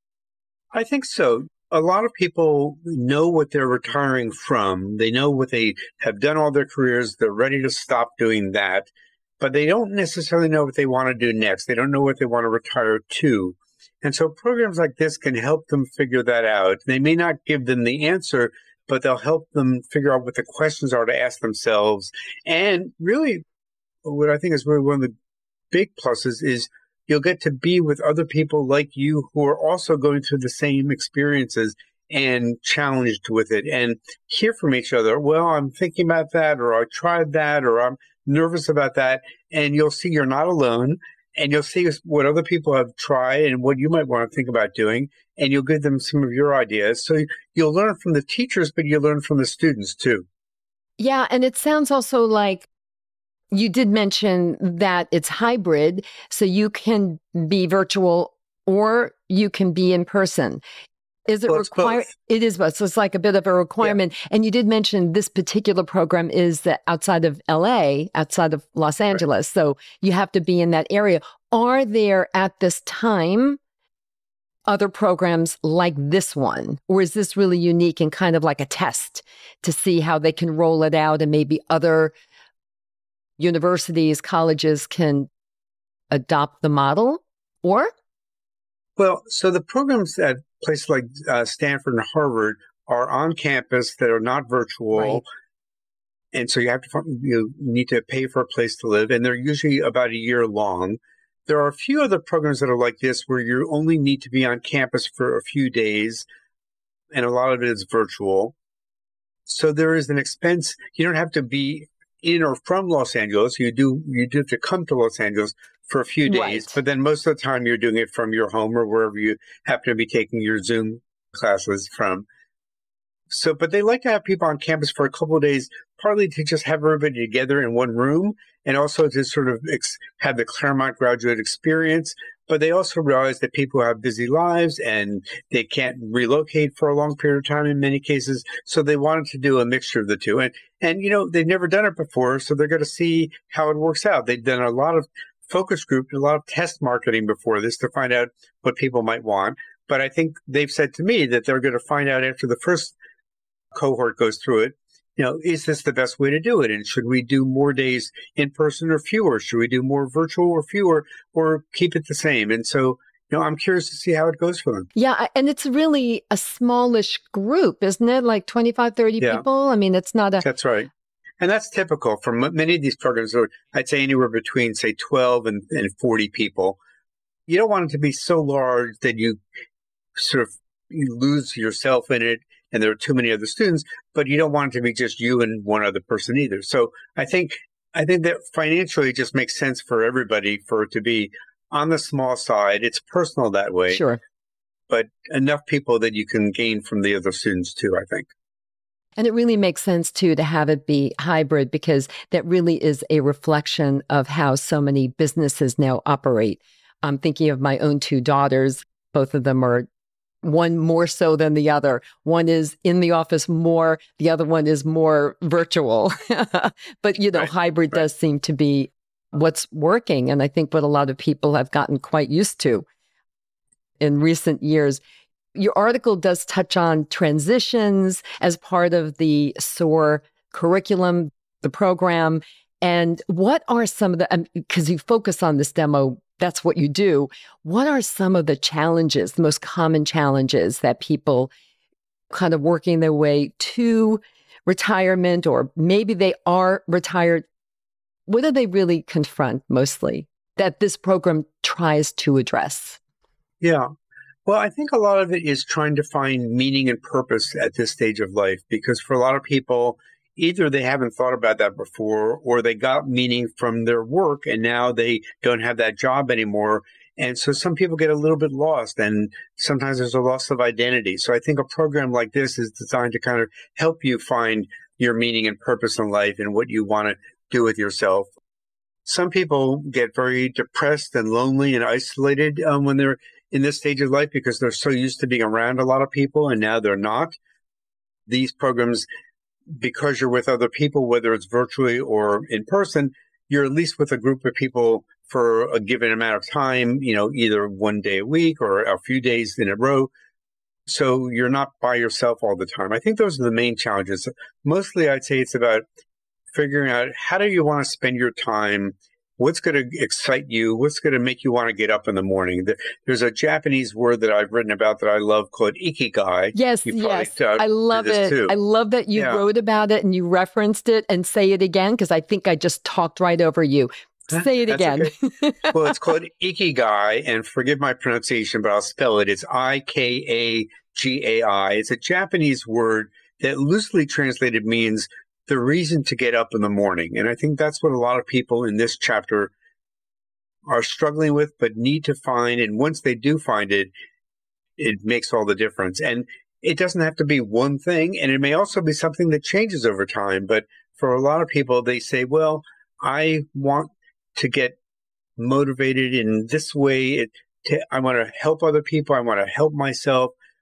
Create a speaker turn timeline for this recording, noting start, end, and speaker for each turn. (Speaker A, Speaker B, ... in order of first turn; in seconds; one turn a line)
Speaker A: 0.7-23.4
Speaker A: 24.0-25.1
Speaker A: 25.7-50.3
Speaker B: 51.0-52.7
Speaker B: 53.5-60.6
Speaker B: 61.3-73.6
Speaker A: 61.5-62.0
Speaker B: 74.7-82.2
Speaker B: 83.4-85.3
Speaker B: 86.1-87.9
Speaker A: 89.0-95.2
Speaker A: 96.3-106.2
Speaker A: 107.1-108.6
Speaker A: 109.5-122.3
Speaker B: 116.3-116.8
Speaker A: 123.3-153.0
Speaker A: 153.7-164.9
Speaker B: 165.0-170.4
Speaker A: 169.2-169.4
Speaker A: 170.4-170.9
Speaker A: 171.4-176.8
Speaker A: 177.5-179.4
Speaker A: 180.2-194.0
Speaker B: 193.9-194.2
Speaker A: 194.9-198.3
Speaker B: 199.2-209.9
Speaker B: 210.4-222.9
Speaker B: 224.0-225.0
Speaker B: 225.6-241.5
Speaker B: 242.3-247.4
Speaker B: 248.3-253.0
Speaker A: 253.6-253.9
Speaker A: 254.5-278.3
Speaker A: 279.1-287.4
Speaker A: 288.3-289.1
Speaker A: 289.7-300.1
Speaker A: 300.9-305.8
Speaker A: 306.5-318.6
Speaker B: 316.5-325.9
Speaker A: 319.1-319.4
Speaker A: 324.3-325.1
Speaker A: 325.7-339.5
Speaker A: 340.7-343.9
Speaker A: 344.8-354.8
Speaker A: 355.4-360.3